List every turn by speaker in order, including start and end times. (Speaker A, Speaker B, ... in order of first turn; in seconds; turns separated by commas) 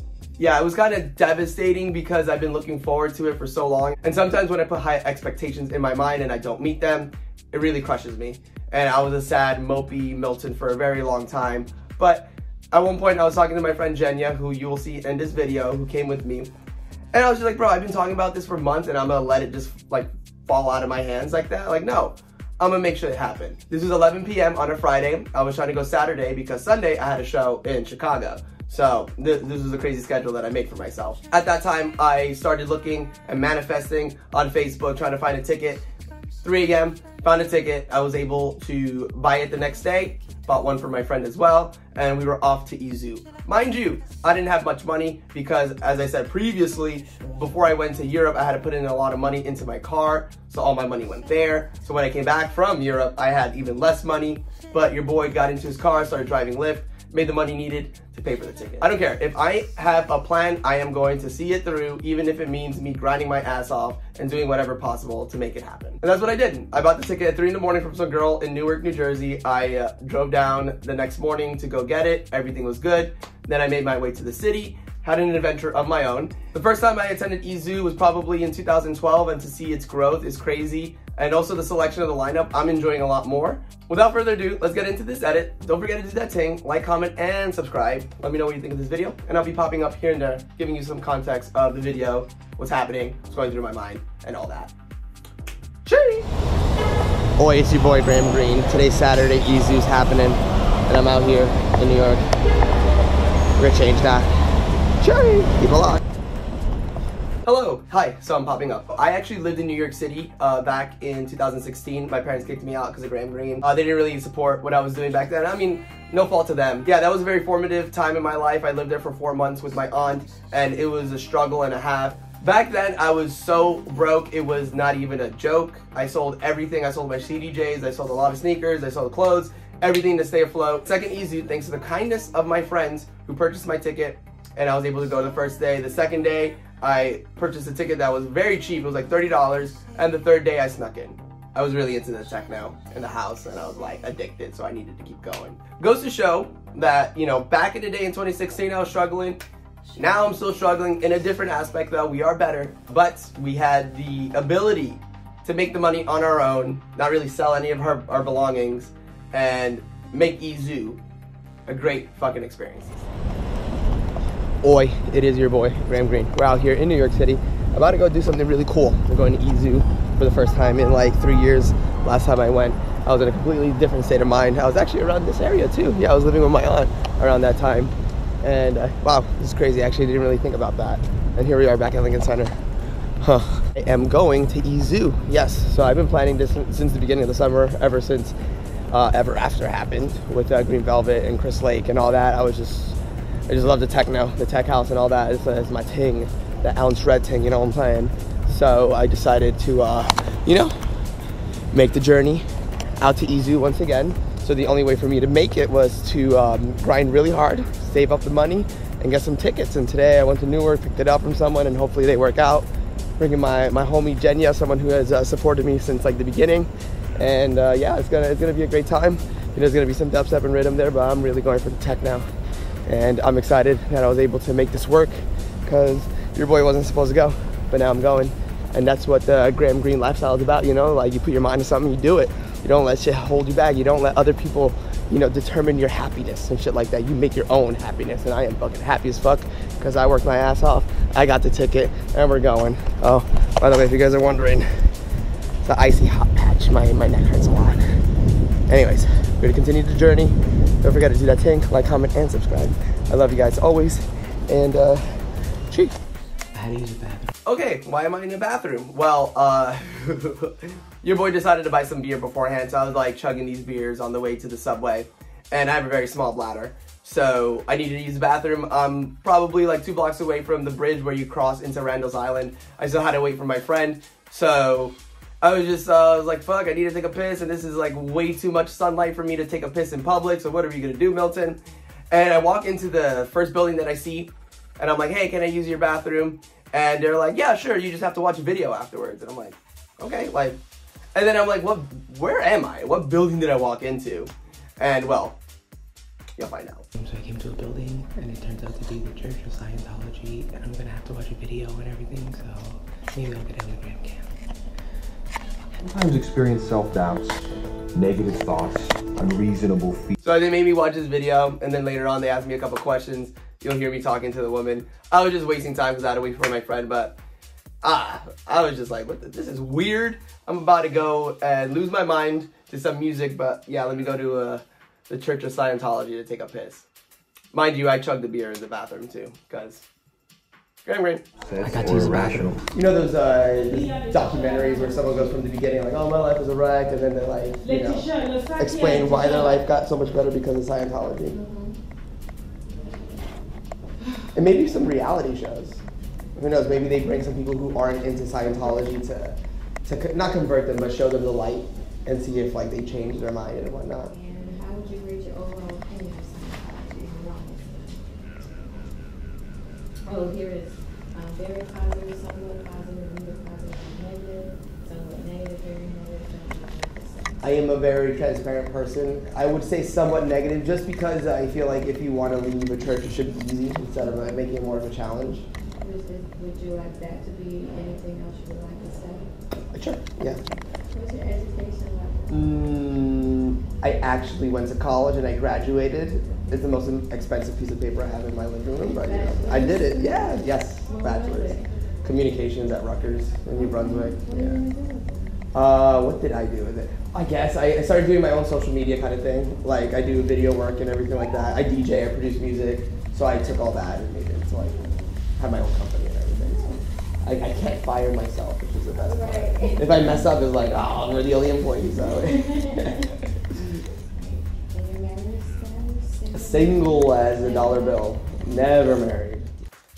Speaker A: 0.4-16.5, Speaker A: 17.1-35.8, Speaker A: 36.4-94.7, Speaker A: 95.9-96.3, Speaker A: 97.4-102.3, Speaker A: 103.6-104.3, Speaker A: 105.0-106.0, Speaker A: 107.5-149.4, Speaker A: 150.0-161.0, Speaker A: 161.7-163.0, Speaker A: 164.6-182.6, Speaker A: 183.2-188.3, Speaker A: 188.9-193.0, Speaker A: 193.5-200.8, Speaker A: 201.7-202.5, Speaker A: 203.0-212.7, Speaker A: 213.2-222.3, Speaker A: 222.9-244.7, Speaker A: 245.6-247.8, Speaker A: 248.7-255.0, Speaker A: 255.7-256.0, Speaker B: 256.5-257.3, Speaker A: 257.5-281.6, Speaker A: 282.1-290.6, Speaker A: 291.1-295.4, Speaker A: 296.4-296.9, Speaker B: 297.0-304.3, Speaker C: 305.8-310.2, Speaker A: 310.2-317.2, Speaker A: 317.8-326.9, Speaker A: 327.5-329.8, Speaker A: 330.9-331.2, Speaker C: 331.5-332.6, Speaker B: 331.6-332.6, Speaker A: 332.7-341.4, Speaker D: 341.2-341.8, Speaker D: 342.7-343.3, Speaker A: 344.3-345.8, Speaker A: 346.4-349.4, Speaker A: 349.9-354.1, Speaker D: 354.1-358.9, Speaker D: 360.1-367.5, Speaker A: 367.4-375.5, Speaker D: 375.8-379.4, Speaker A: 379.7-380.4, Speaker D: 380.9-382.5, Speaker A: 382.3-394.6, Speaker D: 389.0-391.9, Speaker D: 393.5-395.4, Speaker A: 395.5-404.8, Speaker D: 404.6-405.1, Speaker A: 405.4-413.1, Speaker D: 406.4-406.8, Speaker D: 408.9-410.4, Speaker D: 412.0-418.4, Speaker A: 416.3-419.5